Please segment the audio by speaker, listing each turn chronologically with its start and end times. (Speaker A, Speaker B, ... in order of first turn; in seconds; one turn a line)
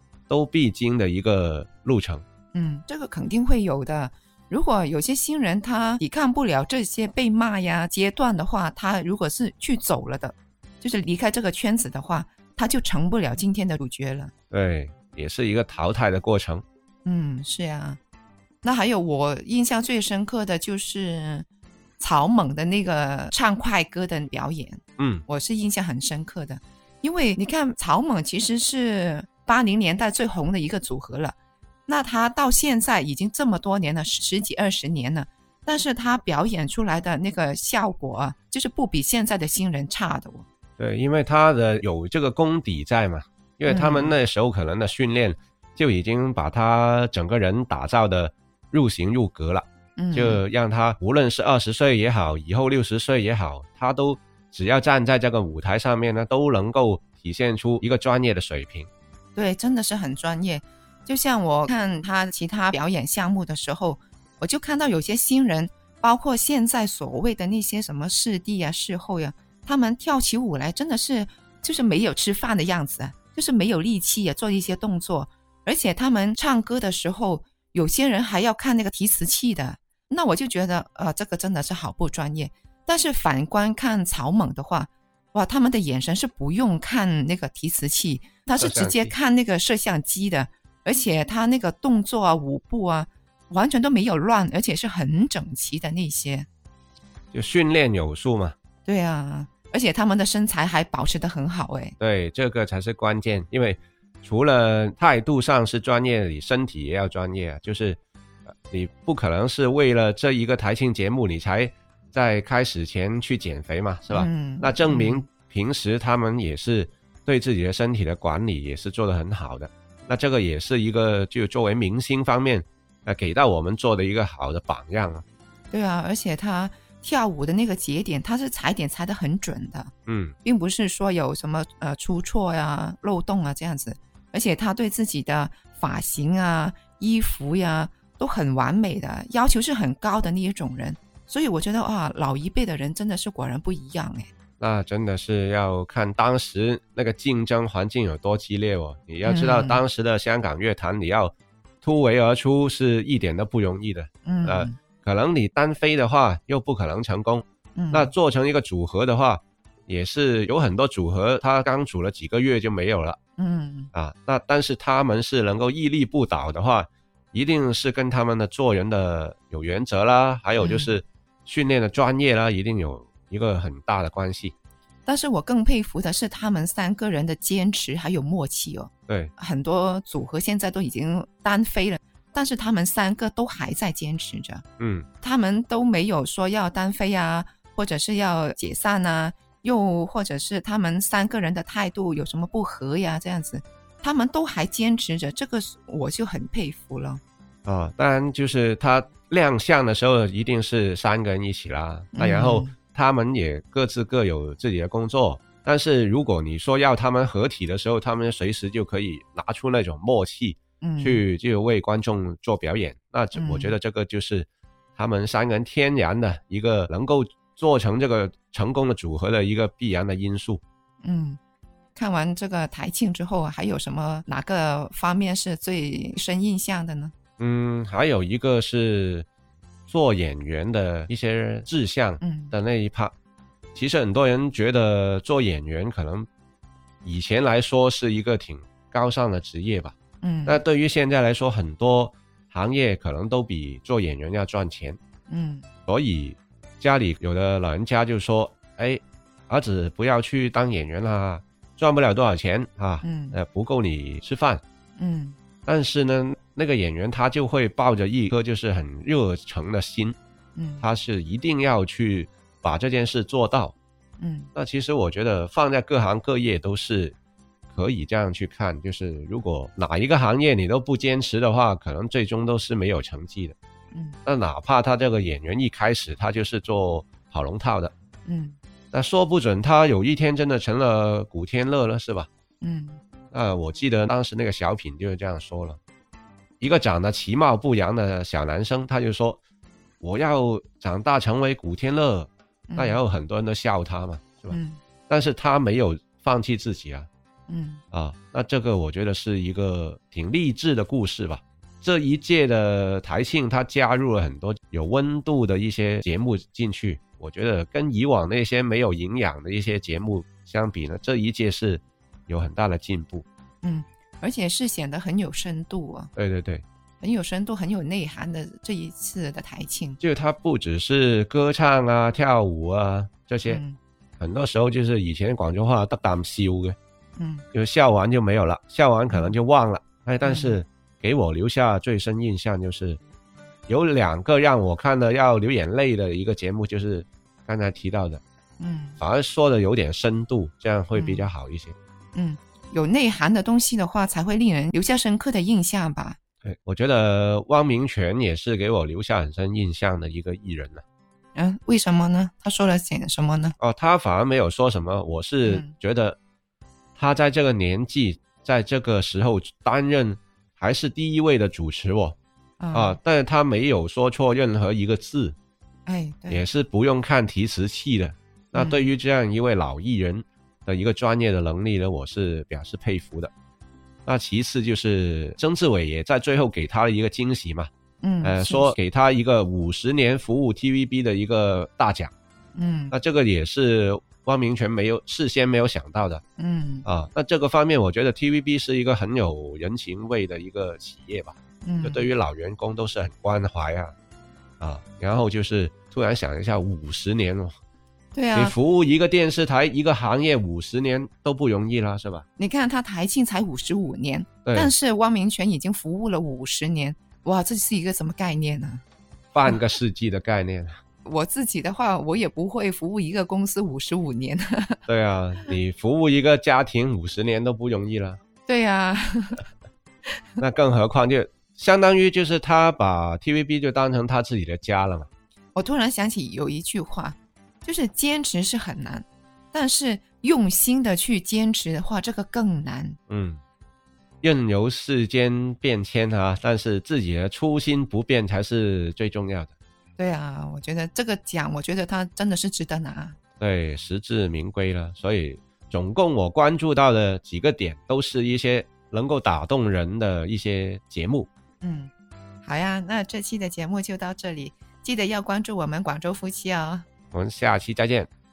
Speaker A: 0.3-2.2
Speaker B: 2.5-14.3
Speaker A: 14.5-16.6
Speaker B: 17.1-18.0
Speaker B: 18.6-21.5
Speaker B: 22.0-31.4
Speaker A: 25.0-25.2
Speaker B: 31.9-40.5
Speaker A: 40.8-58.9
Speaker B: 43.7-44.1
Speaker B: 50.0-50.4
Speaker B: 59.4-96.5
Speaker A: 88.6-89.1
Speaker A: 97.3-98.5
Speaker B: 98.8-102.0
Speaker A: 102.0-108.0
Speaker A: 108.7-125.2
Speaker B: 114.1-115.2
Speaker B: 125.7-129.9
Speaker A: 130.1-130.4
Speaker B: 130.4-144.3
Speaker A: 144.6-163.2
Speaker B: 149.2-149.8
Speaker B: 154.2-154.8
Speaker B: 157.8-158.1
Speaker B: 163.4-163.9
Speaker A: 163.9-174.6
Speaker B: 170.6-170.9
Speaker B: 175.1-184.6
Speaker A: 184.8-185.1
Speaker B: 185.2-197.2
Speaker A: 197.7-220.6
Speaker B: 202.1-202.7
Speaker B: 210.8-211.2
Speaker B: 213.3-213.8
Speaker B: 221.0-221.4
Speaker B: 221.9-227.1
Speaker A: 227.4-229.3
Speaker A: 229.9-233.1
Speaker B: 232.2-232.5
Speaker A: 233.8-236.3
Speaker A: 237.0-245.0
Speaker B: 240.2-240.6
Speaker B: 245.3-245.7
Speaker A: 245.9-254.6
Speaker B: 253.0-253.4
Speaker B: 255.0-255.4
Speaker A: 255.7-260.2
Speaker B: 260.6-260.9
Speaker A: 260.8-263.8
Speaker B: 264.2-264.5
Speaker A: 264.6-267.1
Speaker A: 267.7-273.6
Speaker B: 273.9-274.2
Speaker A: 274.3-277.9
Speaker B: 278.3-278.6
Speaker A: 278.9-282.3
Speaker B: 282.6-283.0
Speaker A: 283.3-285.8
Speaker A: 286.6-289.4
Speaker A: 290.0-294.6
Speaker B: 292.7-293.0
Speaker B: 294.5-294.8
Speaker A: 295.1-297.1
Speaker B: 297.5-297.8
Speaker A: 297.9-313.2
Speaker B: 313.6-316.1
Speaker A: 316.2-316.6
Speaker B: 317.0-320.0
Speaker A: 320.0-323.6
Speaker B: 323.5-323.8
Speaker A: 324.2-326.8
Speaker B: 327.2-327.4
Speaker A: 327.5-333.0
Speaker B: 329.1-329.4
Speaker B: 330.2-330.6
Speaker A: 333.7-338.2
Speaker B: 338.6-339.0
Speaker A: 339.0-341.8
Speaker B: 340.9-341.2
Speaker B: 342.1-346.2
Speaker A: 346.4-350.8
Speaker B: 351.4-353.6
Speaker A: 353.6-356.2
Speaker B: 355.4-355.7
Speaker A: 357.0-362.2
Speaker B: 362.6-363.0
Speaker A: 362.7-365.4
Speaker B: 365.9-366.5
Speaker A: 366.3-373.3
Speaker B: 368.6-368.9
Speaker A: 374.1-377.7
Speaker B: 378.0-378.8
Speaker A: 378.2-382.1
Speaker B: 382.6-382.9
Speaker A: 382.9-386.2
Speaker B: 386.4-386.9
Speaker A: 386.9-393.9
Speaker B: 391.6-392.1
Speaker A: 394.6-397.6
Speaker B: 398.1-398.6
Speaker A: 398.3-402.2
Speaker B: 402.4-408.8
Speaker A: 404.5-404.7
Speaker A: 409.3-410.8
Speaker B: 411.1-414.8
Speaker A: 414.9-418.2
Speaker B: 418.5-419.4
Speaker A: 420.4-425.1
Speaker B: 425.6-433.0
Speaker A: 433.1-433.4
Speaker A: 434.2-439.5
Speaker B: 440.0-443.2
Speaker A: 443.4-451.3
Speaker B: 451.6-451.9
Speaker B: 452.4-456.9
Speaker A: 457.1-458.1